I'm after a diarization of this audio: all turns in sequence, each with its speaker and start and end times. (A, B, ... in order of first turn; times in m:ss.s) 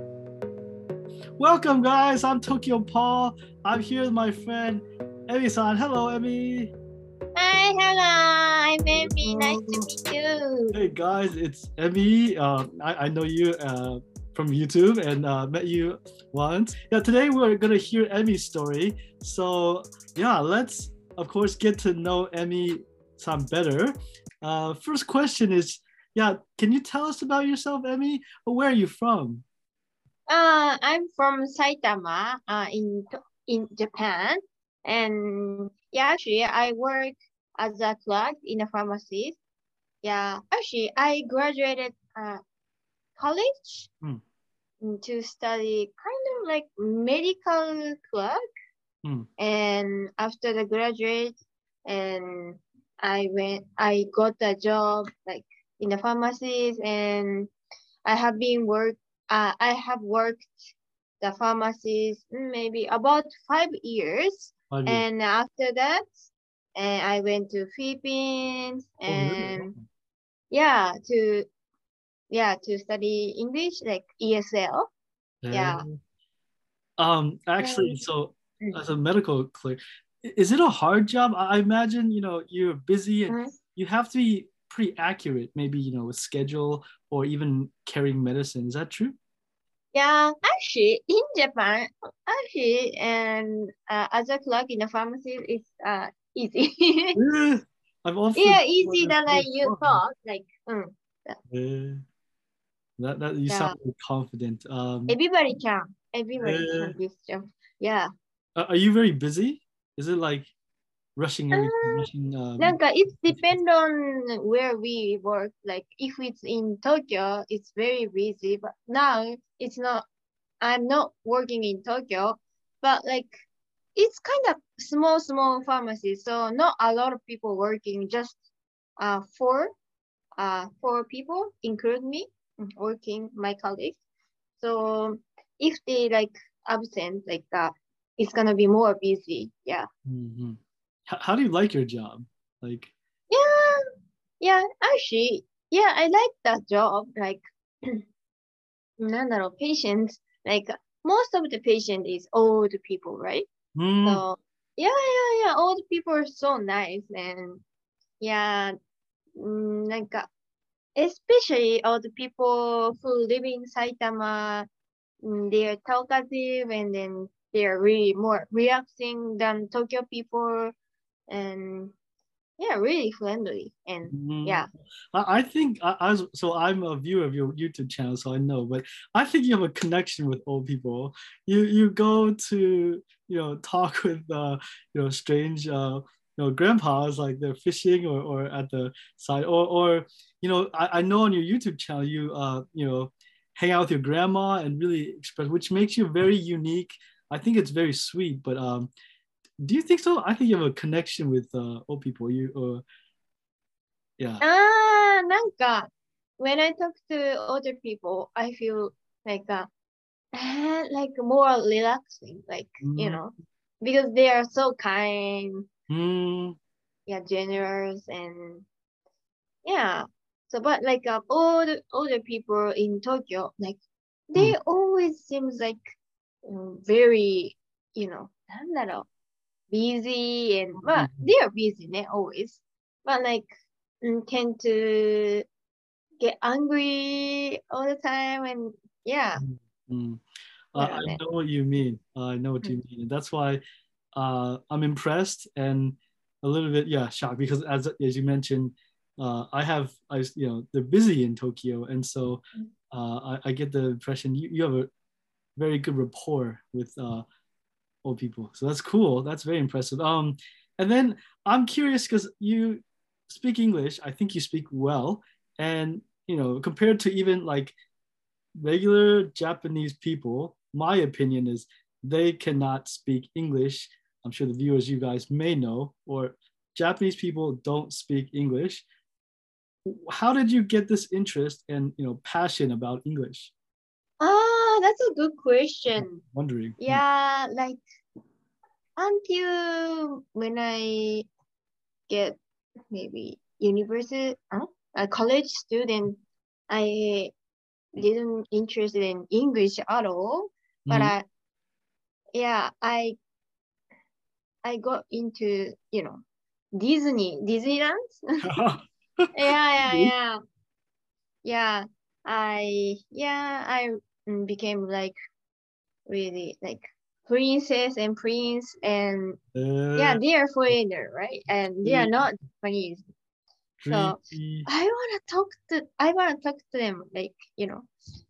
0:01.4-0:06.7 A
0:07.4-0:10.8 B
0:09.0-0:09.9 A
0:10.7-0:29.4 A
0:30.3-0:39.4 B
0:40.0-0:42.4 B
0:43.2-0:43.9 B
0:44.8-0:48.4 B
0:49.4-0:57.5 B
0:58.0-1:09.7 B
1:04.7-1:05.0 A
1:09.1-1:09.8 A
1:10.5-1:11.5 B
1:12.3-1:14.9 B
1:15.4-1:16.0 A
1:15.5-1:15.8 B
1:17.0-1:29.2 A
1:17.6-1:18.0 B
1:29.9-1:37.2 B
1:37.1-1:40.0 A
1:38.4-1:41.4 B
1:41.5-1:42.0 A
1:43.0-1:45.2 A
1:43.5-1:43.8 B
1:45.1-1:48.1 B
1:46.4-1:47.0 A
1:48.6-1:50.5 A
1:51.2-1:52.8 A
1:51.5-1:52.1 B
1:52.6-2:00.0 B
1:53.3-1:53.6 A
2:00.6-2:03.3 B
2:04.0-2:08.4 B
2:09.0-2:09.7 B
2:10.4-2:14.0 B
2:14.6-2:19.9 B
2:20.0-2:22.9 A
2:23.3-2:23.8 B
2:24.4-2:28.0 B
2:29.0-2:33.5 B
2:33.8-2:34.2 A
2:34.0-2:37.6 B
2:38.2-2:38.7 B
2:39.4-2:40.3 B
2:40.9-2:44.7 B
2:45.2-2:50.7 B
2:51.3-2:51.9 B
2:52.6-2:54.7 B
2:54.1-3:18.9 A
3:19.6-3:22.8 A
3:24.4-3:29.7 B
3:30.3-3:35.6 B
3:32.8-3:33.2 A
3:35.9-3:36.6 A
3:37.1-3:38.6 B
3:39.6-3:45.8 B
3:46.4-3:49.1 B
3:49.7-3:53.5 B
3:50.9-3:51.3 A
3:54.0-3:55.4 B
3:56.2-3:59.4 B
3:59.4-4:03.6 A
4:00.8-4:01.2 B
4:04.1-4:14.9 A
4:15.6-4:17.2 A
4:18.0-4:27.7 A
4:28.5-4:38.8 A
4:39.8-4:43.5 A
4:44.2-4:46.2 B
4:46.0-4:47.0 A
4:46.8-4:47.8 B
4:49.0-4:51.3 B
4:52.1-4:52.4 B
4:52.9-4:57.3 B
4:58.0-5:01.2 B
5:00.8-5:01.1 A
5:02.3-5:03.2 B
5:04.6-5:06.2 B
5:06.7-5:08.2 B
5:08.4-5:08.8 A
5:09.3-5:10.4 B
5:09.9-5:10.1 A
5:11.4-5:15.1 B
5:16.1-5:19.4 B
5:19.5-5:20.2 A
5:20.0-5:23.0 B
5:21.8-5:22.2 A
5:23.8-5:24.7 A
5:23.9-5:27.9 B